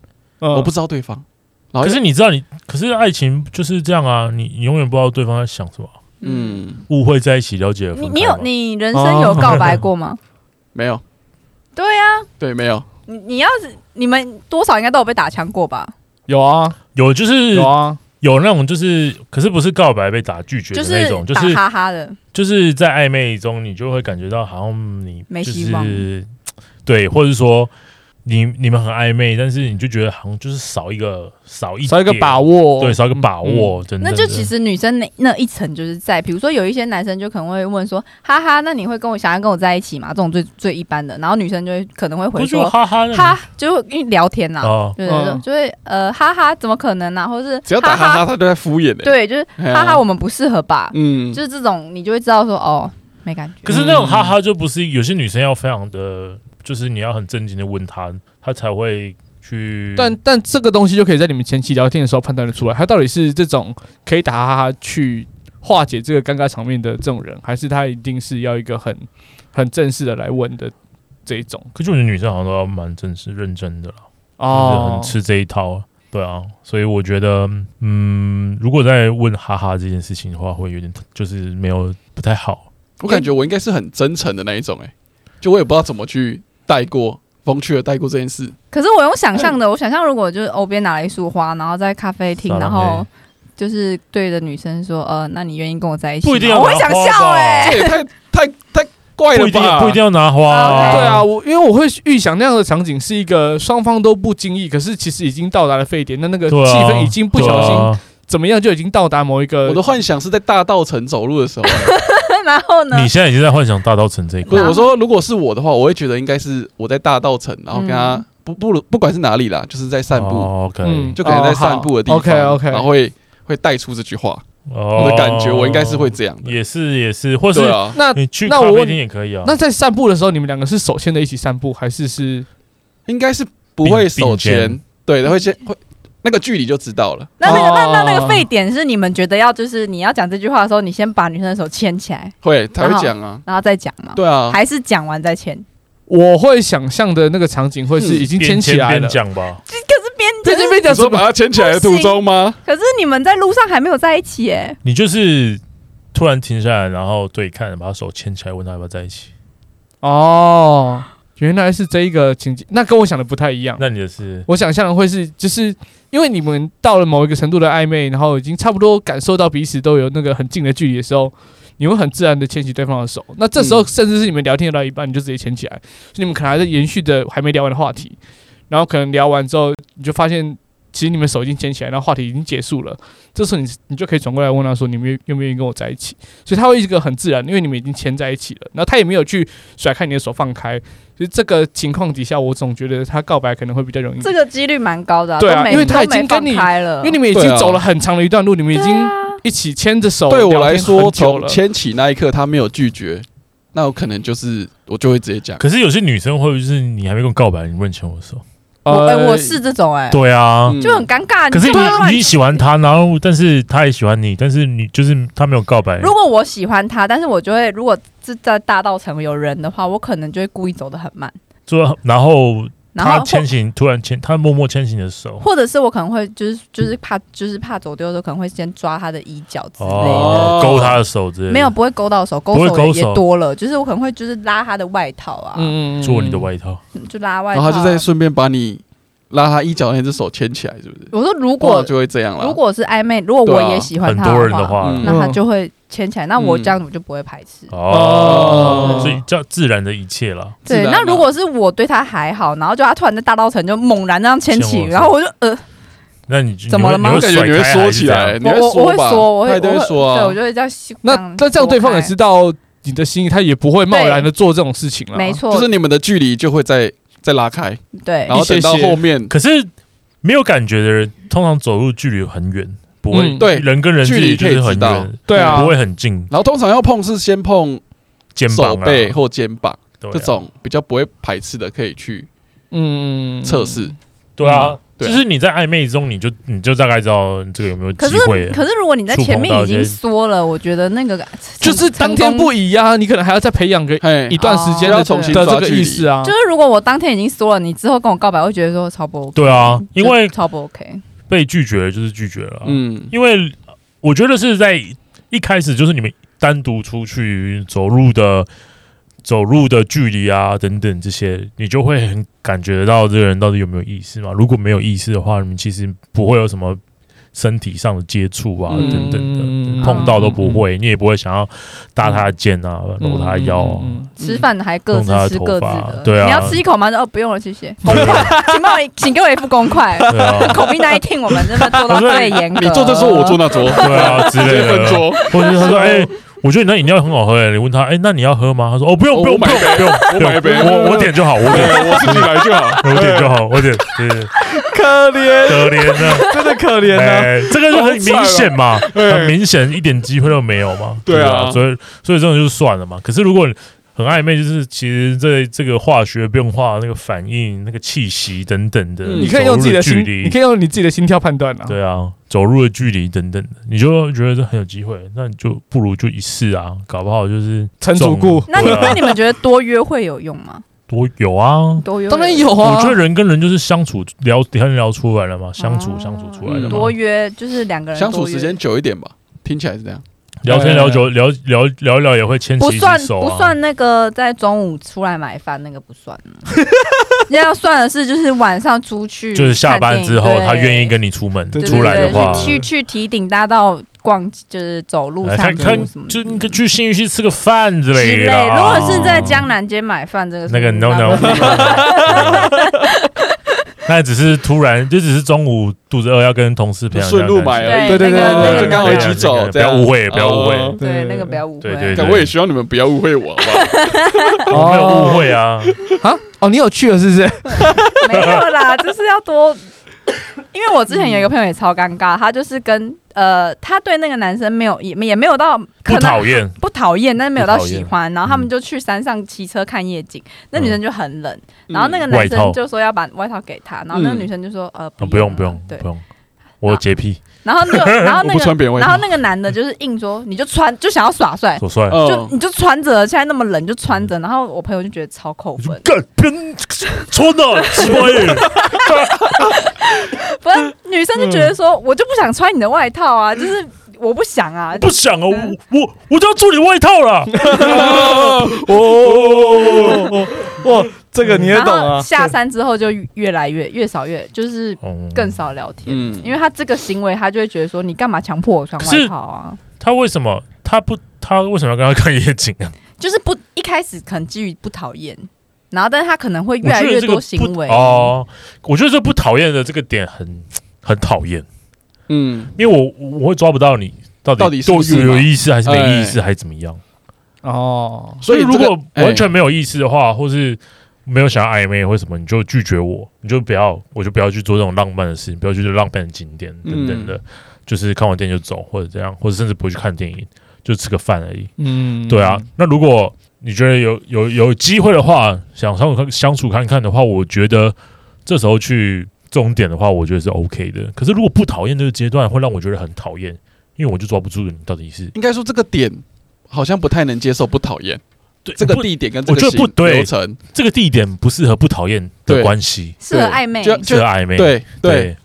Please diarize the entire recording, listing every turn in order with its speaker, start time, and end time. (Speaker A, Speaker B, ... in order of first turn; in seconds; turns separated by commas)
Speaker A: 0.4-0.7, Speaker B: 0.5-2.0, Speaker C: 1.8-5.9, Speaker D: 6.2-6.6, Speaker B: 6.2-6.8, Speaker C: 6.9-8.5, Speaker D: 8.0-10.2, Speaker A: 8.9-9.7, Speaker C: 9.4-9.7, Speaker B: 10.7-11.0, Speaker D: 11.8-12.3, Speaker B: 12.4-12.8, Speaker D: 13.1-15.9, Speaker A: 16.3-16.8, Speaker C: 16.9-21.6, Speaker A: 17.5-18.0, Speaker D: 20.7-22.2, Speaker C: 22.3-26.3, Speaker D: 25.3-26.1, Speaker C: 26.9-27.7, Speaker C: 28.2-34.5, Speaker A: 31.9-33.7, Speaker D: 34.0-48.3, Speaker C: 42.4-43.4, Speaker C: 44.6-45.0, Speaker A: 45.0-45.4, Speaker B: 47.7-50.0, Speaker D: 49.0-53.8, Speaker B: 50.9-51.4, Speaker C: 53.7-60.2, Speaker A: 53.7-54.4, Speaker A: 60.0-70.7, Speaker A: 71.3-71.7, Speaker C: 71.8-82.7, Speaker A: 74.4-75.1, Speaker B: 83.0-88.5, Speaker D: 88.7-98.0, Speaker C: 92.5-93.1, Speaker C: 96.2-97.8, Speaker B: 97.6-100.0, Speaker C: 99.3-101.3, Speaker D: 100.5-101.2, Speaker A: 100.7-109.8, Speaker C: 106.5-108.0, Speaker B: 107.4-107.8, Speaker B: 109.7-111.9, Speaker D: 111.7-113.1, Speaker C: 112.9-114.8, Speaker B: 114.5-120.5, Speaker D: 114.5-114.9, Speaker D: 117.7-118.2, Speaker C: 120.1-121.2, Speaker A: 120.8-122.9, Speaker B: 121.2-124.4, Speaker C: 124.7-129.6, Speaker B: 125.0-126.5, Speaker B: 127.5-128.0, Speaker A: 127.9-132.5, Speaker B: 133.1-137.6, Speaker C: 133.8-134.8, Speaker D: 137.4-145.7, Speaker A: 137.4-138.5, Speaker B: 142.4-143.4, Speaker B: 144.2-144.6, Speaker A: 146.1-149.2, Speaker B: 148.0-148.3, Speaker C: 148.3-149.6, Speaker D: 149.7-150.9, Speaker A: 150.4-151.3, Speaker B: 150.8-152.6, Speaker D: 151.5-154.8, Speaker C: 154.8-155.6, Speaker C: 156.1-159.3, Speaker A: 160.0-163.8, Speaker C: 163.8-164.5, Speaker A: 164.5-178.2, Speaker B: 173.6-173.9, Speaker A: 178.7-194.3, Speaker D: 194.2-197.2, Speaker A: 195.4-201.6, Speaker B: 197.3-197.8, Speaker D: 198.7-199.4, Speaker B: 200.3-205.6, Speaker C: 205.6-208.4, Speaker A: 208.8-209.6, Speaker D: 208.9-212.6, Speaker C: 210.1-210.8, Speaker B: 210.7-211.1, Speaker C: 211.5-216.1, Speaker D: 216.0-221.3, Speaker C: 221.7-225.4, Speaker D: 222.9-223.5, Speaker D: 225.4-230.9, Speaker C: 229.8-231.7, Speaker B: 230.0-231.0, Speaker D: 231.5-235.8, Speaker C: 232.5-233.2, Speaker A: 235.6-236.5, Speaker C: 236.0-236.8, Speaker D: 236.9-238.1, Speaker B: 237.5-242.6, Speaker D: 241.1-247.7, Speaker B: 243.4-243.9, Speaker C: 244.0-245.1, Speaker B: 244.8-245.1, Speaker A: 245.0-245.4, Speaker B: 246.4-246.8, Speaker C: 247.7-250.6, Speaker A: 247.9-249.2, Speaker B: 248.2-249.1, Speaker B: 250.7-251.3, Speaker D: 250.7-255.6, Speaker C: 254.5-255.2, Speaker C: 256.3-258.4, Speaker D: 256.7-257.3, Speaker B: 257.0-260.4, Speaker D: 258.4-262.1, Speaker A: 261.0-265.4, Speaker D: 263.9-264.3, Speaker D: 265.1-265.7, Speaker B: 265.5-269.3, Speaker D: 267.9-268.4, Speaker A: 268.3-269.0, Speaker C: 269.3-269.7, Speaker C: 270.2-276.3, Speaker A: 273.1-273.5, Speaker B: 273.4-275.7, Speaker A: 275.3-275.7, Speaker B: 276.3-277.8, Speaker C: 278.4-279.2, Speaker B: 278.5-282.3, Speaker C: 280.0-280.4, Speaker A: 282.7-284.8, Speaker B: 283.4-283.9, Speaker C: 284.4-290.0, Speaker B: 284.5-285.2, Speaker D: 288.0-292.5, Speaker A: 291.6-296.3, Speaker B: 294.0-296.1, Speaker D: 294.4-295.4, Speaker D: 296.2-301.0, Speaker C: 299.4-300.3, Speaker C: 301.3-308.5, Speaker B: 302.6-303.1, Speaker C: 309.2-316.8, Speaker C: 317.3-324.1, Speaker B: 318.7-319.2, Speaker A: 318.7-320.6, Speaker D: 319.8-320.1, Speaker A: 323.0-324.1, Speaker D: 324.2-334.4, Speaker C: 324.9-326.6, Speaker C: 327.8-328.4, Speaker A: 327.9-328.6, Speaker C: 330.1-330.7, Speaker A: 330.1-330.7, Speaker C: 331.8-332.4, Speaker B: 332.5-336.1, Speaker C: 333.7-344.4, Speaker D: 335.2-335.9, Speaker B: 339.1-343.3, Speaker A: 340.4-343.3, Speaker A: 344.0-347.6, Speaker C: 345.4-346.4, Speaker C: 346.9-360.4, Speaker B: 347.7-349.4, Speaker B: 351.1-351.6, Speaker B: 359.0-359.3, Speaker A: 359.2-361.8, Speaker C: 361.7-369.1, Speaker A: 367.8-369.2, Speaker D: 368.5-370.6, Speaker C: 370.9-371.9, Speaker D: 371.8-372.6, Speaker A: 372.1-373.0, Speaker C: 372.6-376.9, Speaker D: 375.6-378.6, Speaker B: 376.4-376.9, Speaker B: 377.9-380.0, Speaker C: 380.4-383.6, Speaker A: 380.5-381.1, Speaker D: 382.6-386.5, Speaker A: 386.6-387.0, Speaker D: 387.2-390.9, Speaker C: 389.3-392.6, Speaker A: 391.5-392.6, Speaker D: 391.6-396.6, Speaker C: 395.2-399.5, Speaker A: 395.6-395.8, Speaker D: 397.9-403.2, Speaker C: 400.5-402.6, Speaker A: 401.2-402.7, Speaker C: 403.9-410.8, Speaker B: 406.9-410.8, Speaker D: 407.6-409.1, Speaker A: 407.9-409.2, Speaker A: 410.8-411.4, Speaker D: 410.8-412.1, Speaker C: 411.6-412.3, Speaker B: 411.9-414.2, Speaker D: 413.5-414.4, Speaker C: 414.5-415.8, Speaker A: 414.5-418.4, Speaker D: 417.6-419.6, Speaker D: 420.5-435.9, Speaker C: 425.9-426.6, Speaker C: 427.4-428.5, Speaker B: 431.7-432.1, Speaker C: 432.1-432.6, Speaker B: 433.9-434.3, Speaker C: 435.0-436.0, Speaker C: 436.6-438.1, Speaker D: 437.4-445.9, Speaker B: 438.2-439.1, Speaker C: 441.6-442.0, Speaker B: 441.9-442.3, Speaker C: 445.6-449.4, Speaker D: 447.6-455.5, Speaker C: 454.8-460.6, Speaker A: 457.3-462.2, Speaker B: 457.7-458.6, Speaker B: 459.6-459.9, Speaker D: 461.5-469.6, Speaker C: 464.8-465.4, Speaker B: 465.9-466.3, Speaker C: 468.8-469.1, Speaker C: 469.8-472.8, Speaker D: 473.0-478.1, Speaker C: 476.6-481.5, Speaker B: 482.1-482.5, Speaker C: 482.6-486.8, Speaker B: 484.4-486.2, Speaker A: 487.4-488.2, Speaker B: 488.2-489.3, Speaker C: 488.3-501.5, Speaker B: 496.6-497.1, Speaker A: 501.6-502.5, Speaker C: 502.1-515.1, Speaker B: 515.1-518.0, Speaker C: 518.5-523.0, Speaker B: 518.6-520.4, Speaker B: 522.3-522.5, Speaker D: 523.0-523.9, Speaker B: 523.1-525.1, Speaker C: 523.8-525.2